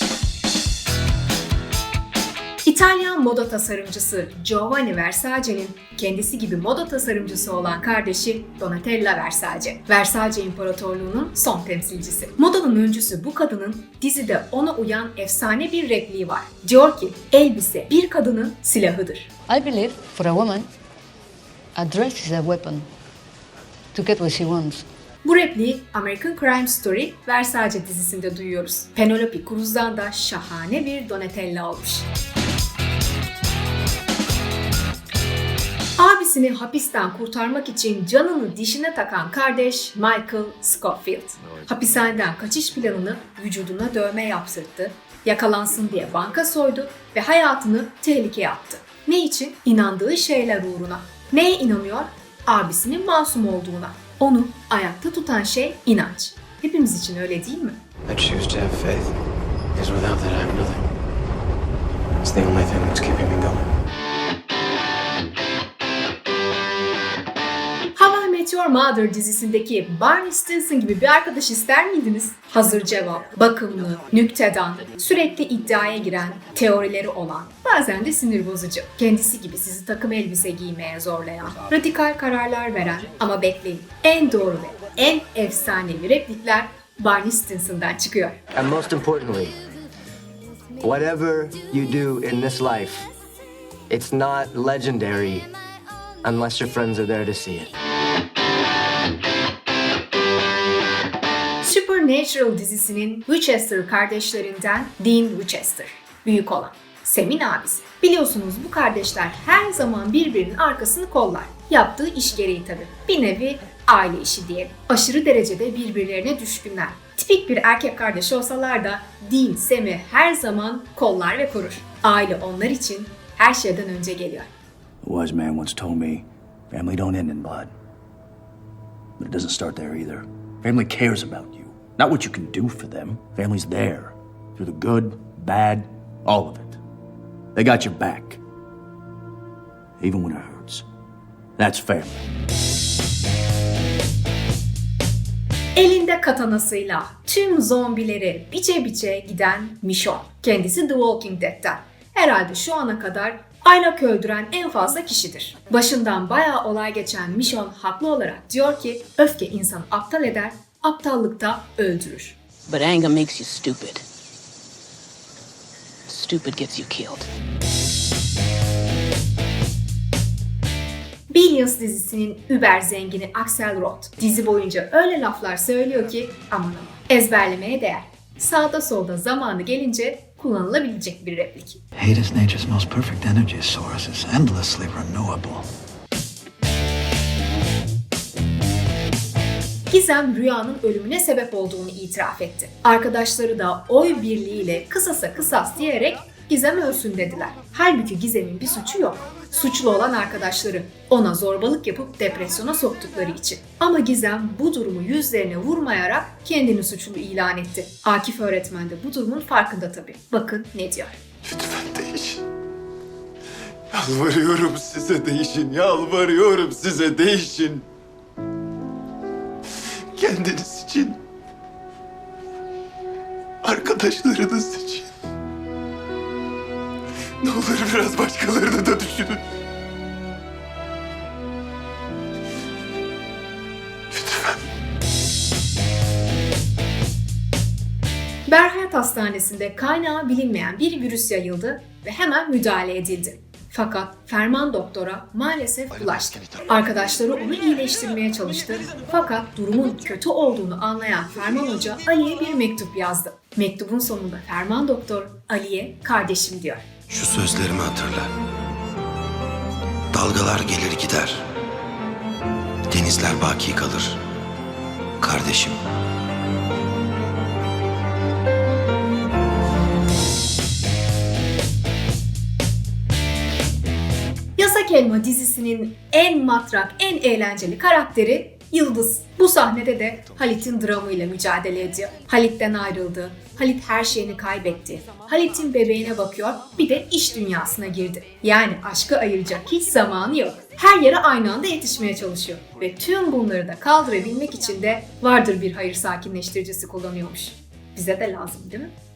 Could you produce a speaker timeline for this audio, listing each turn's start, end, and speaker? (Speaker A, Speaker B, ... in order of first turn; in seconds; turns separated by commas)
Speaker A: 2.6-19.3, Speaker B: 19.5-20.7, Speaker B: 21.8-22.9, Speaker B: 23.9-24.9, Speaker A: 25.2-32.1, Speaker A: 36.0-57.8, Speaker C: 58.1-59.1, Speaker C: 59.8-60.8, Speaker C: 62.2-63.7, Speaker A: 68.0-88.4, Speaker D: 88.5-89.6, Speaker D: 90.8-93.1, Speaker D: 93.9-95.5, Speaker D: 96.2-97.7, Speaker A: 101.6-124.5, Speaker E: 125.0-127.7, Speaker E: 129.2-136.8, Speaker E: 137.6-138.4, Speaker E: 140.0-140.9, Speaker E: 141.6-142.2, Speaker A: 145.8-162.4, Speaker F: 162.7-164.1, Speaker F: 166.1-167.3, Speaker A: 171.3-181.8, Speaker G: 182.0-184.3, Speaker G: 185.4-185.7, Speaker A: 189.9-211.2, Speaker H: 211.8-212.3, Speaker H: 213.9-217.7, Speaker D: 215.2-215.5, Speaker D: 216.2-217.5, Speaker H: 220.2-220.8, Speaker H: 223.6-225.0, Speaker H: 227.4-229.4, Speaker H: 234.2-234.5, Speaker A: 238.5-256.9, Speaker I: 257.1-258.3, Speaker I: 260.1-261.4, Speaker I: 262.9-264.2, Speaker I: 265.2-265.8, Speaker A: 274.6-298.9